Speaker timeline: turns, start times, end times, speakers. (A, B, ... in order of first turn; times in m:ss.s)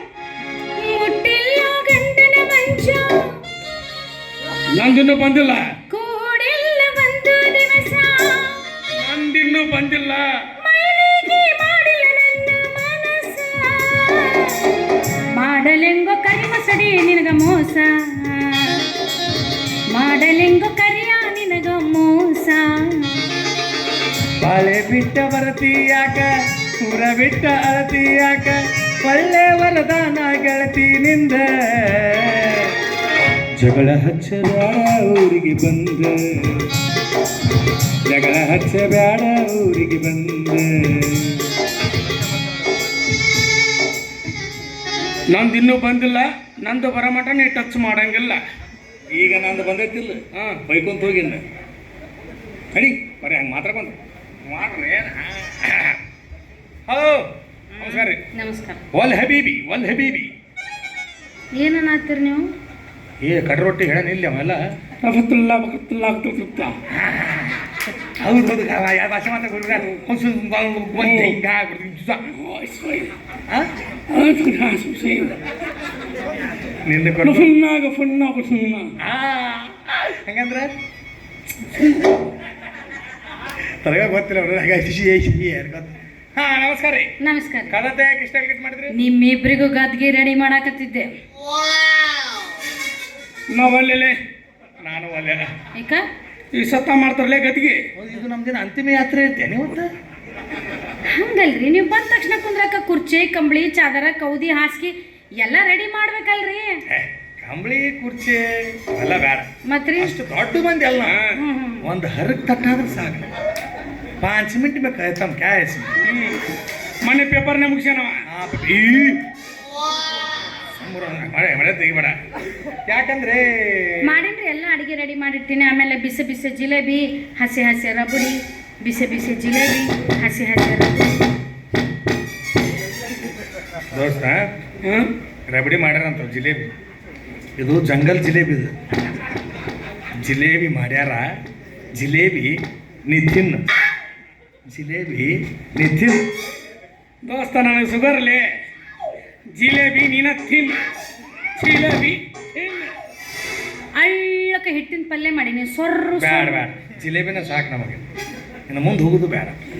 0:00.7-0:03.4 A
0:04.7-0:05.7 B
0:05.9-0:08.6 A
0:08.9-0:10.4 B
0:10.6-0:18.8 A
0:19.9-0:23.2 A
0:24.4-0:26.3 C
0:26.8-0:32.8 C
0:33.6-0:36.7 C
0:38.0-0:41.5 C
0:45.3-0:48.4 B
0:49.1-0:51.4 C
0:50.3-0:50.6 B
0:52.7-0:56.0 C
0:56.9-0:57.3 C
0:57.7-0:58.8 A
0:57.8-0:58.2 C
0:58.9-1:00.3 C
1:01.5-1:02.5 A
1:03.2-1:04.6 C
1:05.0-1:06.8 B
1:06.9-1:07.5 C
1:08.2-1:12.3 C
1:11.0-1:11.4 B
1:12.3-1:13.1 B
1:14.1-1:15.4 B
1:16.8-1:17.5 C
1:17.2-1:18.9 B
1:19.0-1:20.7 C
1:21.7-1:22.0 B
1:23.8-1:27.1 C
1:27.2-1:27.8 A
1:27.7-1:28.9 C
1:28.9-1:31.1 A
1:33.5-1:34.2 B
1:34.8-1:35.4 C
1:35.7-1:36.0 A
1:36.5-1:37.8 B
1:38.0-1:39.9 C
1:41.1-1:46.8 A
1:46.9-1:49.4 C
1:49.6-1:50.2 A
1:50.0-1:51.2 C
1:51.0-1:51.4 B
1:51.4-1:51.9 A
1:51.8-1:53.3 C
1:54.2-1:55.9 C
1:56.0-1:56.4 B
1:57.0-1:58.2 B
1:58.3-1:59.2 C
2:00.7-2:02.2 C
2:02.8-2:04.1 C
2:04.0-2:11.1 A
2:13.9-2:14.5 C
2:14.8-2:15.1 B
2:15.5-2:16.7 C
2:17.6-2:18.7 C
2:20.2-2:21.4 C
2:21.9-2:23.6 C
2:24.7-2:26.2 C
2:27.2-2:28.5 B
2:29.5-2:30.8 B
2:31.6-2:32.9 B
2:34.0-2:36.6 A
2:36.2-2:38.0 C
2:38.7-2:39.6 C